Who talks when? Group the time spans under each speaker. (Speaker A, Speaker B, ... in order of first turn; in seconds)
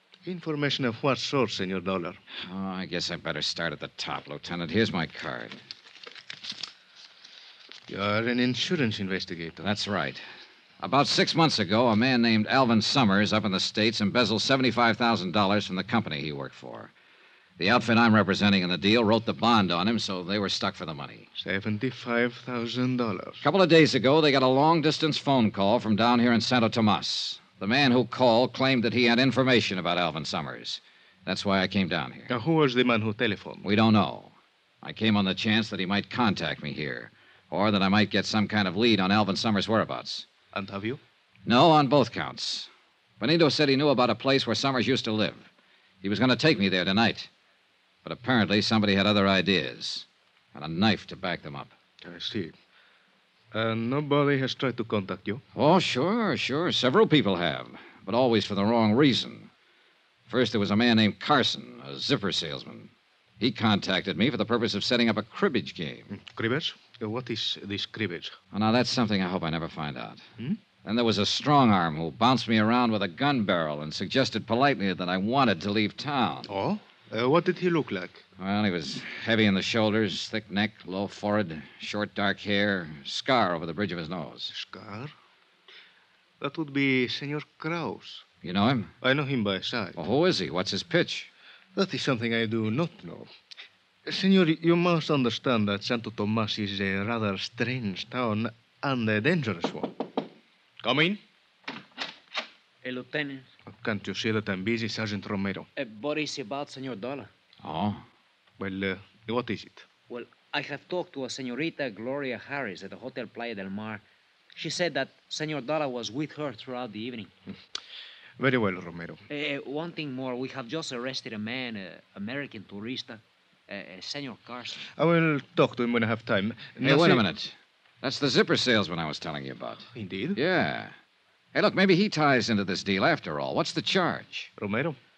Speaker A: 0.3-2.2, 7.9-9.7, 21.4-23.4, 32.3-33.6, 40.5-41.0, 52.0-52.5, 53.5-55.4, 66.1-68.4, 76.5-78.2, 84.5-85.1, 86.4-88.2, 89.0-90.0, 91.8-93.3, 94.0-100.0, 100.8-101.2, 103.7-105.7, 108.6-109.9, 118.4-119.2, 125.0-127.3, 129.9-130.4, 134.6-135.0
Speaker B: 2.4-5.6, 9.6-10.2, 10.8-16.9, 17.6-21.3, 23.4-32.3, 33.6-40.3, 41.5-42.7, 43.2-45.5, 46.0-47.3, 48.0-51.7, 55.5-59.5, 60.3-66.1, 68.5-70.2, 70.8-76.5, 78.4-84.5, 88.4-88.9, 90.0-91.3, 107.6-108.0, 126.8-129.8, 130.4-130.9, 131.5-134.5
Speaker C: 102.8-103.5, 105.8-107.3, 110.1-114.0, 114.6-117.3, 119.3-124.8